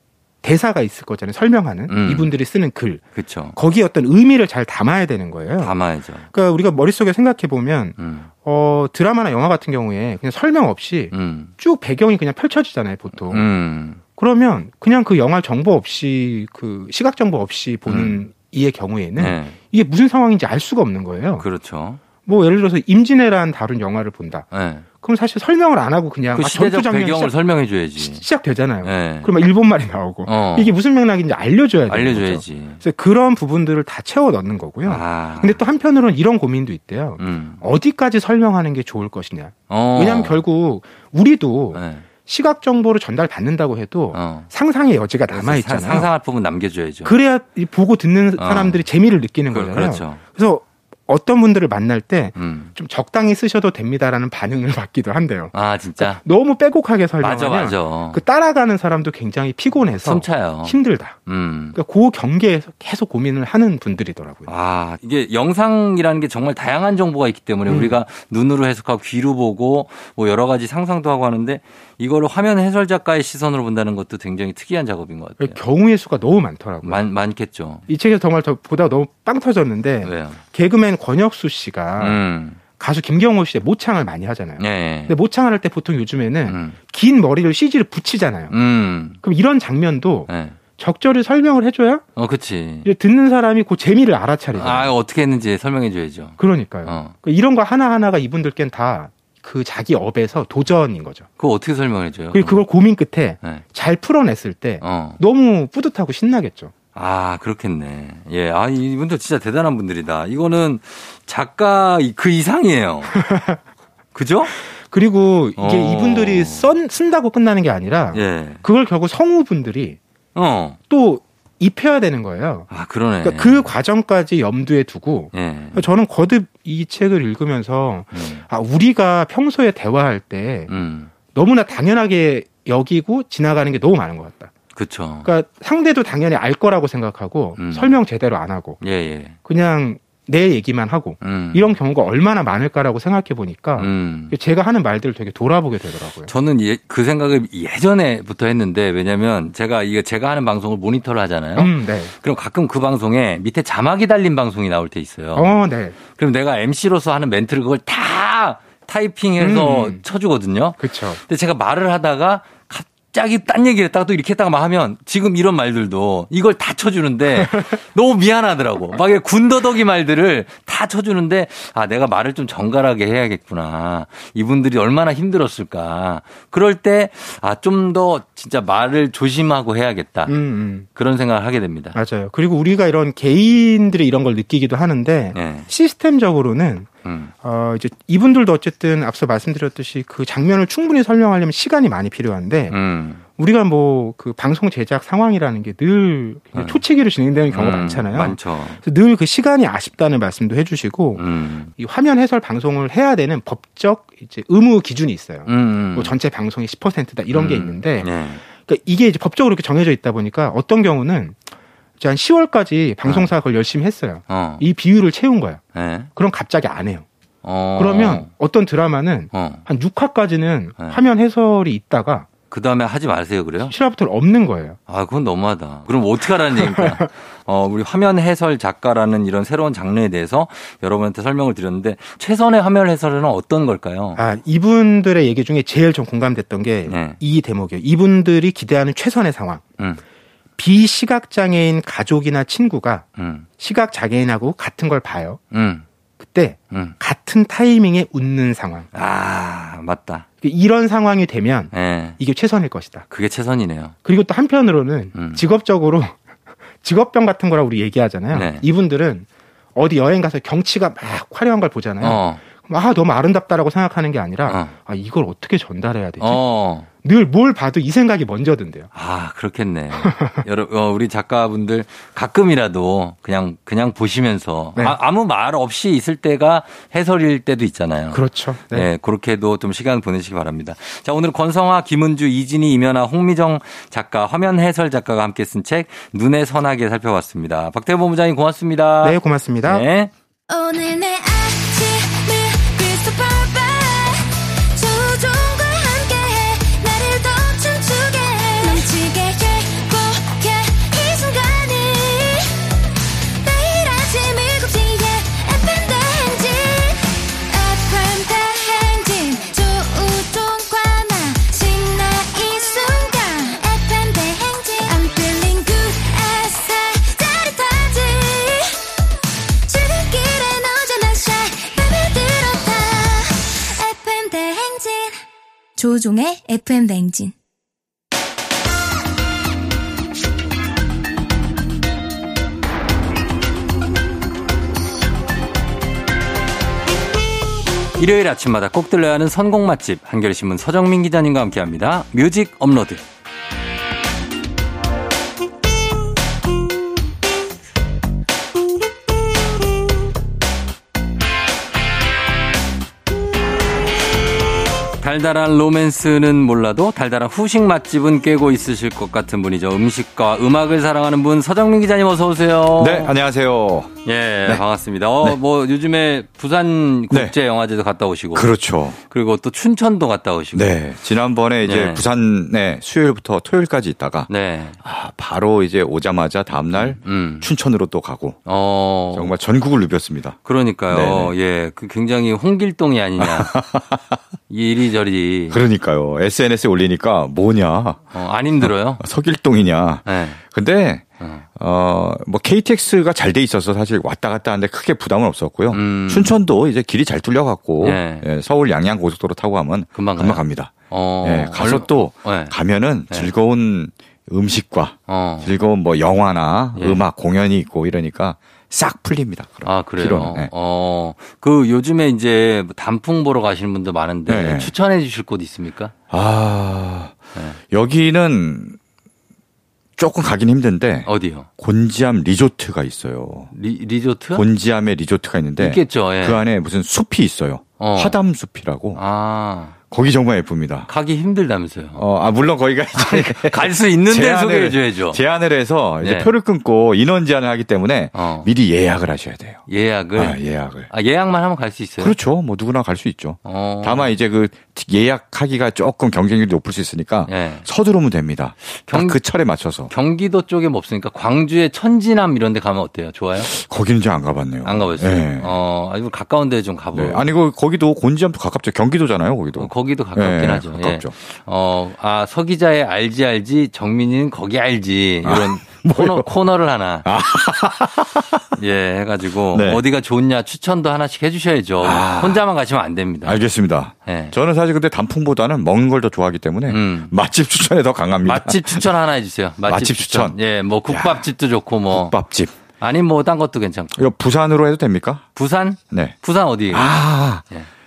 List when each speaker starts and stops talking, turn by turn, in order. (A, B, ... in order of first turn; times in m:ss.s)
0:00.4-0:03.0 A
0:01.9-0:02.3 B
0:03.1-0:03.6 B
0:03.5-0:05.7 A
0:05.6-0:06.3 B
0:06.3-0:13.4 A
0:08.0-0:08.3 B
0:11.1-0:11.5 B
0:13.1-0:14.0 B
0:14.2-0:21.4 A
0:17.9-0:18.2 B
0:19.2-0:19.6 B
0:21.4-0:22.0 B
0:22.2-0:24.5 A
0:24.5-0:24.8 B
0:25.0-0:27.3 A
0:26.3-0:28.2 B
0:28.0-0:46.1 A
0:28.8-0:29.3 B
0:30.2-0:30.8 B
0:31.9-0:32.8 B
0:34.8-0:35.6 B
0:37.2-0:37.6 B
0:39.7-0:40.4 B
0:41.7-0:42.0 B
0:44.1-0:44.5 B
0:45.3-0:47.2 B
0:47.0-1:01.2 A
0:48.4-0:48.8 B
0:49.5-0:50.2 B
0:52.4-0:52.7 B
0:55.5-0:56.2 B
0:57.2-0:58.2 B
1:00.0-1:01.8 B
1:01.7-1:04.5 A
1:04.5-1:15.6 B
1:07.7-1:08.0 A
1:15.4-1:17.0 A
1:16.8-1:17.8 B
1:17.9-1:22.2 A
1:20.0-1:20.4 B
1:22.0-1:22.6 B
1:22.8-1:28.5 A
1:24.6-1:25.1 B
1:26.5-1:26.8 B
1:28.5-1:29.2 B
1:29.2-1:32.0 A
1:30.3-1:30.6 B
1:32.2-1:32.9 B
1:32.8-1:34.9 A
1:34.5-1:37.1 B
1:36.4-1:41.3 A
1:41.4-1:42.6 B
1:42.3-1:46.7 A
1:44.8-1:45.2 B
1:46.9-1:53.2 B
1:53.1-1:53.6 A
1:54.1-1:54.5 B
1:54.6-2:00.0 A
1:55.6-1:56.7 B
1:58.1-1:58.6 B
2:00.3-2:00.8 B
2:00.9-2:02.7 A
2:02.7-2:03.7 B
2:03.2-2:10.7 A
2:05.3-2:05.8 B
2:08.1-2:08.4 B
2:10.7-2:11.1 B
2:11.3-2:14.5 A
2:14.7-2:15.3 B
2:15.2-2:18.8 A
2:17.6-2:18.0 B
2:18.8-2:19.4 B
2:19.4-2:26.3 A
2:21.2-2:21.7 B
2:23.8-2:24.3 B
2:26.3-3:00.3 B
2:31.6-2:32.1 A
2:35.3-2:36.0 A
2:39.4-2:40.0 A
2:40.8-2:41.2 A
2:47.4-2:47.7 A
3:00.3-3:00.9 A
3:00.9-3:02.0 B
3:01.9-3:06.9 A
3:05.3-3:05.7 B
3:07.0-3:07.3 B
3:07.4-3:12.8 A
3:12.7-3:13.2 B
3:13.4-3:31.4 A
3:16.5-3:16.8 B
3:17.5-3:18.8 B
3:21.2-3:21.7 B
3:25.5-3:26.1 B
3:27.3-3:28.4 B
3:32.0-3:35.6 A
3:33.0-3:33.3 B
3:34.3-3:34.6 B
3:35.7-3:36.1 B
3:36.1-3:37.0 A
3:37.4-3:38.3 B
3:37.8-3:42.3 A
3:39.3-3:39.6 B
3:42.5-3:43.7 B
3:43.6-3:44.8 A
3:44.9-3:54.2 B
3:46.6-3:47.0 A
3:54.2-3:59.6 A
3:56.9-3:57.2 B
4:00.6-4:03.0 A
4:03.2-4:03.5 B
4:03.6-4:05.4 A
4:05.5-4:05.8 B
4:06.2-4:08.9 A
4:06.7-4:07.0 B
4:08.9-4:10.2 B
4:10.4-4:13.0 A
4:11.7-4:12.2 B
4:13.1-4:13.9 B
4:14.0-4:16.2 A
4:15.1-4:15.4 B
4:16.8-4:26.4 A
4:18.3-4:18.6 B
4:22.0-4:22.4 B
4:24.4-4:24.7 B
4:26.2-4:26.9 B
4:26.9-4:28.9 A
4:28.9-4:50.1 B
4:30.0-4:30.4 A
4:38.1-4:38.9 A
4:49.0-4:49.8 A
4:50.5-5:19.0 C
5:19.6-5:25.2 C
5:25.8-5:27.3 C
5:38.0-5:43.0 B
5:55.0-6:03.1 B
6:02.8-6:03.9 D
6:04.0-6:08.5 B
6:08.3-6:09.0 D
6:09.1-6:10.8 B
6:10.5-6:14.3 D
6:11.6-6:12.0 B
6:14.3-6:14.8 B
6:14.8-6:18.4 D
6:16.7-6:17.5 B
6:18.4-6:19.3 B
6:19.1-6:20.4 D
6:20.4-6:23.5 B
6:20.9-6:21.3 D
6:23.2-6:24.2 D
6:24.5-6:25.6 B
6:25.5-6:28.1 D
6:28.1-6:29.0 B
6:28.6-6:50.5 D
6:30.0-6:30.4 B
6:31.2-6:31.4 B
6:35.7-6:36.3 B
6:37.8-6:38.2 B
6:39.9-6:42.5 B
6:45.1-6:45.5 B
6:46.8-6:47.0 B
6:49.6-6:55.9 B
6:54.3-6:54.7 D
6:56.1-6:57.2 D
6:57.7-6:58.8 D
7:00.0-7:03.5 D
7:01.1-7:01.5 B
7:03.5-7:04.4 B
7:04.3-7:09.0 D
7:05.6-7:06.4 B
7:07.8-7:08.2 B
7:08.9-7:09.7 B
7:09.9-7:10.9 D
7:10.9-7:12.0 B
7:12.0-7:19.6 D
7:12.9-7:15.2 B
7:16.0-7:16.3 B
7:18.1-7:18.5 B
7:19.7-7:22.2 B
7:20.2-7:20.9 D
7:22.0-7:29.9 D
7:23.4-7:24.1 B
7:27.3-7:27.7 B
7:28.7-7:29.2 B
7:29.9-7:33.5 B
7:33.4-7:35.5 D
7:34.6-7:37.3 B
7:36.9-7:41.1 D
7:39.6-7:47.1 B
7:45.2-7:46.3 D
7:47.0-7:48.4 D
7:48.6-7:53.4 B
7:49.5-7:49.8 D
7:51.8-7:52.4 D
7:53.2-7:58.8 D
7:54.0-7:54.4 B
7:56.7-7:57.1 B
7:58.2-8:02.1 B
7:59.7-8:00.4 D
8:00.9-8:01.3 D
8:01.9-8:02.5 D
8:02.8-8:04.0 B
8:04.0-8:05.2 D
8:05.3-8:06.9 B
8:06.7-8:07.4 D